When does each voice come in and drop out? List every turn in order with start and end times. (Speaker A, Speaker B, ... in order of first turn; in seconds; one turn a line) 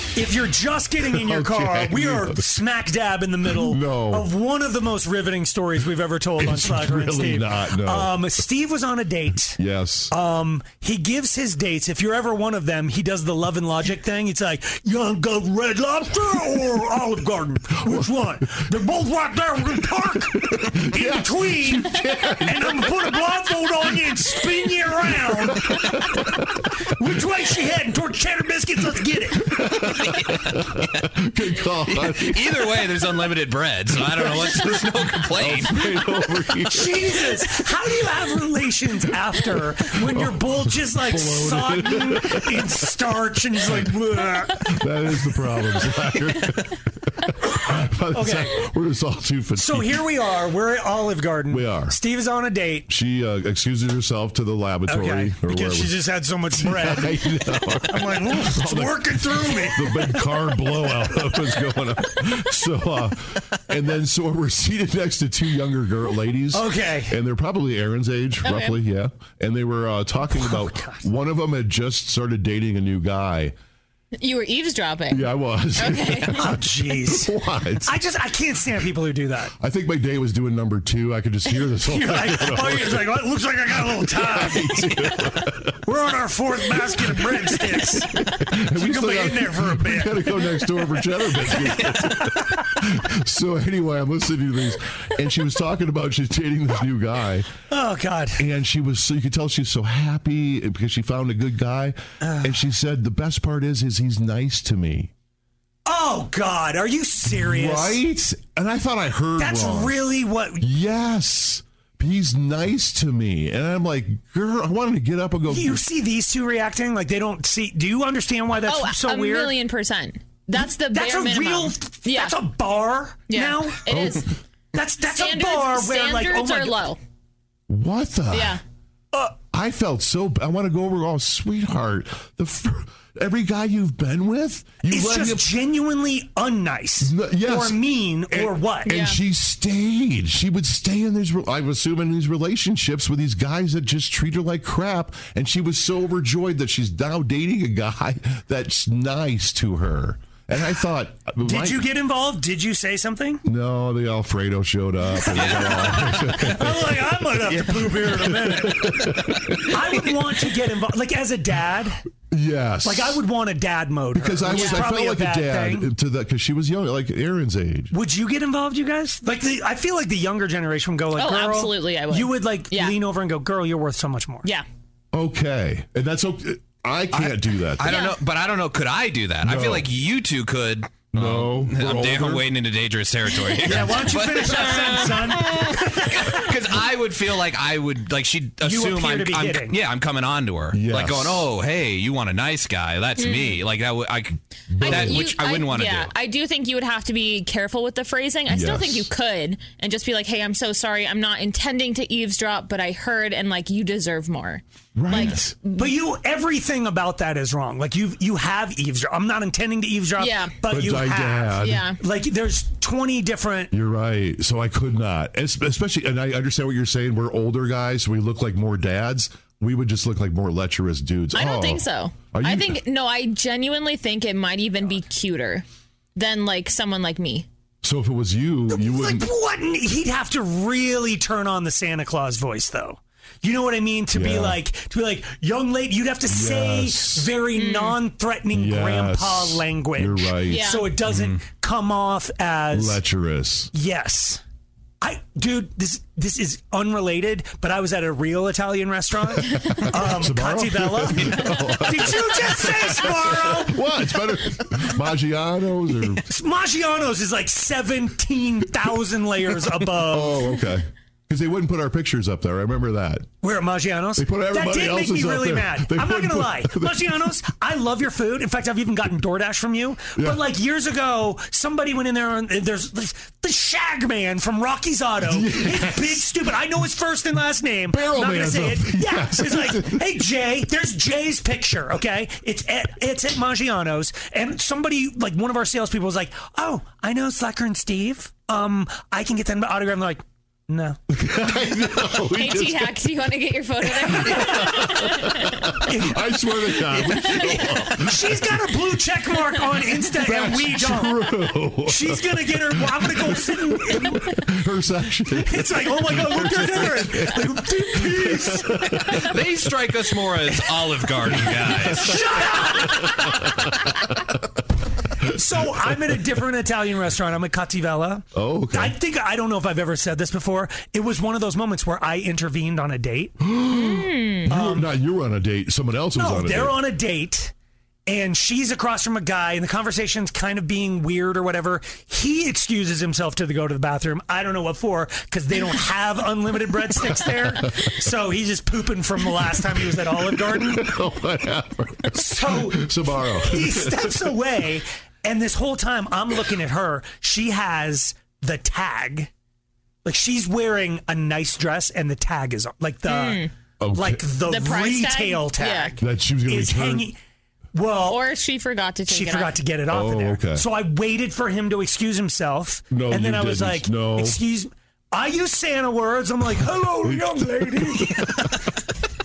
Speaker A: 0.1-9.6
Speaker B: 1.0-2.5
Speaker B: 3.5-4.3
Speaker B: 6.4-8.2
Speaker B: 9.6-10.1
Speaker A: 10.1-25.9
Speaker B: 17.8-18.7
Speaker B: 20.3-23.1
Speaker B: 25.2-26.7
Speaker A: 26.9-29.5
Speaker B: 29.4-32.9
Speaker C: 29.8-31.1
Speaker C: 31.9-36.2
Speaker B: 34.0-37.4
Speaker A: 36.7-44.7
Speaker B: 39.3-42.8
Speaker B: 43.6-43.9
Speaker B: 44.6-50.1
Speaker A: 48.1-48.7
Speaker A: 49.5-52.9
Speaker B: 51.5-52.0
Speaker B: 52.9-56.0
Speaker A: 54.9-57.2
Speaker B: 56.5-73.5
Speaker A: 57.9-61.8
Speaker A: 66.5-67.1
Speaker D: 68.5-68.7
Speaker A: 70.3-71.0
Speaker D: 74.2-76.4
Speaker B: 75.1-78.0
Speaker A: 76.4-79.5
Speaker B: 79.6-85.8
Speaker A: 81.8-84.9
Speaker A: 85.8-88.1
Speaker B: 86.8-97.5
Speaker A: 88.7-90.7
Speaker A: 91.5-92.3
Speaker A: 97.7-98.4
Speaker B: 98.4-105.1
Speaker A: 102.2-102.6
Speaker A: 105.9-108.0
Speaker B: 107.3-110.0
Speaker A: 109.4-110.7
Speaker B: 110.6-115.8
Speaker A: 115.5-119.5
Speaker D: 118.6-122.4
Speaker A: 120.5-124.1
Speaker D: 123.3-124.3
Speaker B: 123.9-124.2
Speaker A: 124.7-126.9
Speaker D: 125.1-127.0
Speaker B: 127.7-128.6
Speaker D: 128.3-128.6
Speaker B: 129.5-135.5
Speaker A: 134.9-139.0
Speaker B: 137.0-151.9
Speaker D: 138.9-139.2
Speaker A: 151.4-153.4
Speaker B: 153.4-160.3
Speaker A: 155.1-159.1
Speaker C: 155.3-156.4
Speaker A: 159.7-162.0
Speaker B: 162.3-163.2
Speaker A: 162.8-165.9
Speaker B: 164.1-167.9
Speaker D: 164.5-164.8
Speaker A: 167.9-174.5
Speaker D: 171.2-173.0
Speaker B: 175.1-177.9
Speaker C: 177.2-185.1
Speaker D: 177.9-178.1
Speaker B: 179.4-179.9
Speaker B: 181.1-182.5
Speaker A: 183.6-186.5
Speaker C: 186.1-196.1
Speaker A: 188.6-189.8
Speaker B: 190.7-191.5
Speaker D: 193.2-193.6
Speaker B: 194.7-195.2
Speaker D: 194.8-206.0
Speaker B: 198.5-199.1
Speaker B: 204.9-205.5
Speaker A: 205.8-213.7
Speaker D: 210.2-210.6
Speaker B: 210.7-211.9
Speaker D: 211.6-212.0
Speaker B: 213.7-222.8
Speaker D: 221.3-225.6
Speaker D: 226.2-227.5
Speaker B: 227.8-229.3
Speaker A: 228.7-243.0
Speaker B: 234.1-234.6
Speaker B: 236.3-237.3
Speaker D: 237.6-238.0
Speaker B: 238.5-240.7
Speaker D: 240.5-240.9
Speaker C: 241.1-241.4
Speaker B: 242.7-243.7
Speaker A: 243.7-244.4
Speaker A: 245.0-254.1
Speaker B: 249.5-256.2
Speaker A: 256.2-260.4
Speaker B: 260.0-263.3
Speaker A: 263.4-291.0
Speaker B: 264.2-267.3
Speaker B: 270.1-270.4
Speaker B: 275.3-276.4
Speaker B: 277.9-280.1
Speaker B: 291.1-293.0
Speaker D: 292.3-295.7
Speaker A: 293.9-295.0
Speaker B: 294.2-298.8
Speaker A: 295.8-301.3
Speaker D: 297.0-297.8
Speaker B: 300.0-309.4
Speaker A: 301.9-304.4
Speaker A: 305.4-309.1
Speaker C: 309.1-312.2
Speaker B: 311.3-314.4
Speaker A: 311.9-313.4
Speaker A: 315.2-323.4
Speaker B: 315.5-316.2
Speaker B: 318.3-319.0
Speaker B: 323.4-326.8
Speaker D: 323.7-324.4
Speaker A: 324.5-324.9
Speaker A: 326.1-327.5
Speaker A: 328.1-340.9
Speaker B: 339.4-344.4
Speaker A: 342.1-349.3
Speaker A: 350.1-357.2
Speaker D: 353.1-353.5
Speaker B: 353.8-354.3
Speaker D: 354.5-356.0
Speaker B: 356.0-357.1
Speaker A: 357.7-358.2
Speaker D: 358.1-359.6
Speaker A: 359.1-368.7
Speaker B: 359.9-360.6
Speaker B: 362.9-364.4
Speaker B: 366.8-368.6